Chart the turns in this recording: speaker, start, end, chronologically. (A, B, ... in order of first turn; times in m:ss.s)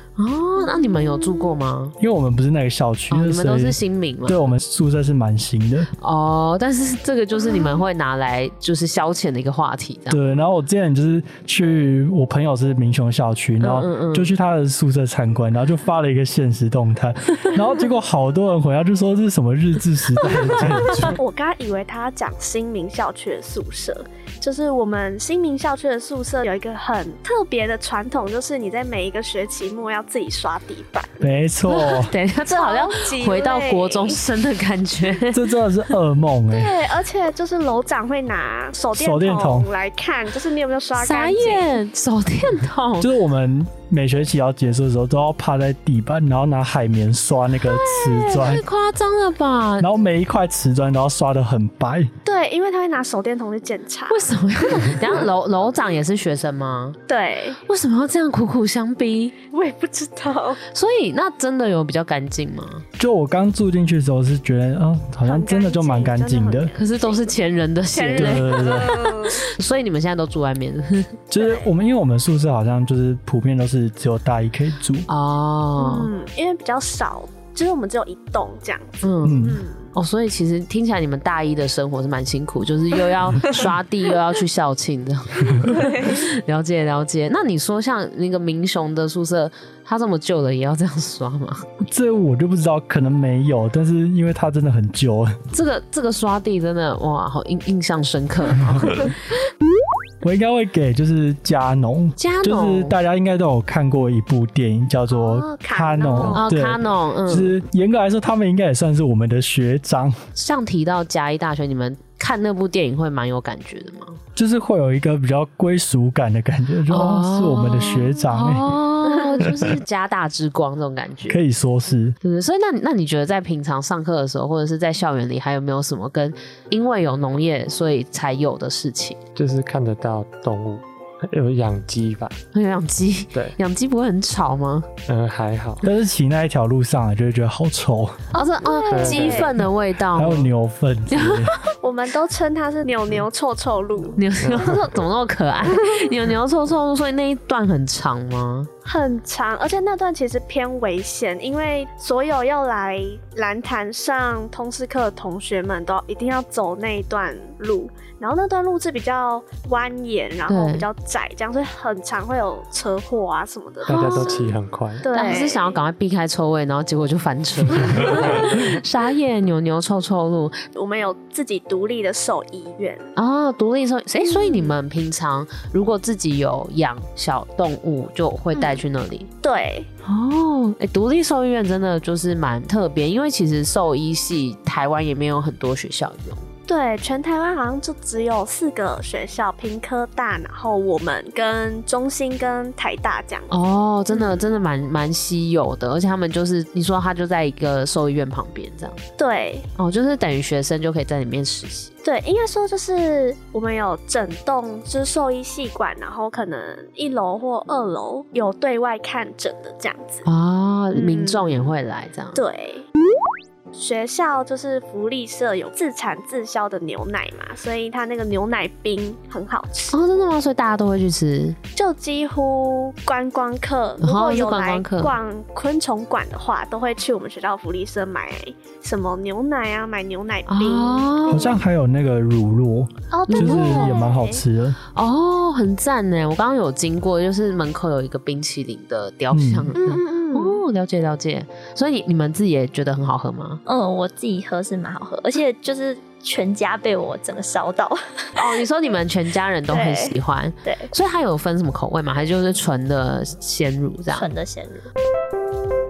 0:00.2-0:02.0 A
0:02.0-0:05.9 B
0:03.1-0:04.5 A
0:06.0-0:10.2 A
0:10.1-0:21.2 B
0:13.6-0:14.3 A
0:21.0-0:31.2 C
0:31.2-0:32.1 B
0:31.8-0:35.5 A
0:32.5-0:34.2 C
0:35.3-0:36.8 B
0:36.5-0:41.7 C
0:39.0-0:39.7 B
0:41.0-0:43.1 A
0:43.0-0:48.6 B
0:47.6-0:49.9 A
0:49.8-0:52.1 B
0:52.2-0:55.2 C
0:54.1-0:57.0 A
0:57.1-0:57.6 C
0:57.7-0:59.4 A
0:59.5-1:00.6 C
1:00.7-1:02.8 A
1:03.0-1:06.7 B
1:05.2-1:07.3 C
1:06.8-1:11.2 A
1:07.9-1:09.4 C
1:08.1-1:09.2 B
1:11.3-1:15.1 B
1:11.4-1:11.7 C
1:15.1-1:16.1 A
1:15.8-1:19.9 C
1:19.0-1:19.4 A
1:19.2-1:19.6 B
1:19.9-1:31.6 A
1:25.6-1:26.2 C
1:31.8-1:35.4 B
1:35.5-1:39.1 A
1:40.2-1:50.2 B
1:42.2-1:43.0 A
1:45.1-1:46.5 C
1:46.2-1:47.6 A
1:50.4-1:54.2 A
1:54.4-1:58.8 B
1:56.9-2:01.4 A
2:01.3-2:02.2 B
2:02.2-2:09.2 A
2:09.4-2:12.4 D
2:12.5-2:14.9 A
2:15.1-2:15.8 D
2:15.8-2:18.3 B
2:18.3-2:20.5 A
2:18.7-2:19.5 C
2:18.9-2:19.5 D
2:20.1-2:21.6 B
2:21.1-2:21.6 A
2:21.8-2:24.2 C
2:24.2-2:28.7 A
2:24.4-2:25.1 D
2:28.8-2:45.8 C
2:40.5-2:40.9 A
2:43.9-2:45.0 D
2:44.0-2:44.2 A
2:45.1-2:50.6 A
2:47.9-2:48.6 D
2:50.8-2:53.1 C
2:53.2-2:59.3 A
2:54.2-2:54.7 C
2:58.5-2:58.8 C
2:59.4-2:59.9 C
3:00.0-3:06.5 A
3:06.7-3:13.5 C
3:13.5-3:19.0 A
3:14.1-3:14.5 C
3:19.2-3:19.7 C
3:19.8-3:21.9 A
3:22.0-3:30.2 C
3:30.2-3:32.4 A
3:30.9-3:31.7 C
3:32.3-3:32.9 C
3:33.7-3:40.0 C
3:39.9-3:41.6 A
3:41.8-3:51.6 C
3:44.0-3:45.1 A
3:50.5-3:51.6 A
3:51.3-3:54.8 B
3:53.1-3:54.2 C
3:53.3-3:54.0 A
3:53.4-3:54.4 E
3:55.0-4:03.6 A
3:59.3-3:59.8 B
3:59.8-4:00.6 C
4:03.7-4:08.6 E
4:08.4-4:14.3 A
4:09.7-4:10.9 E
4:14.1-4:14.9 E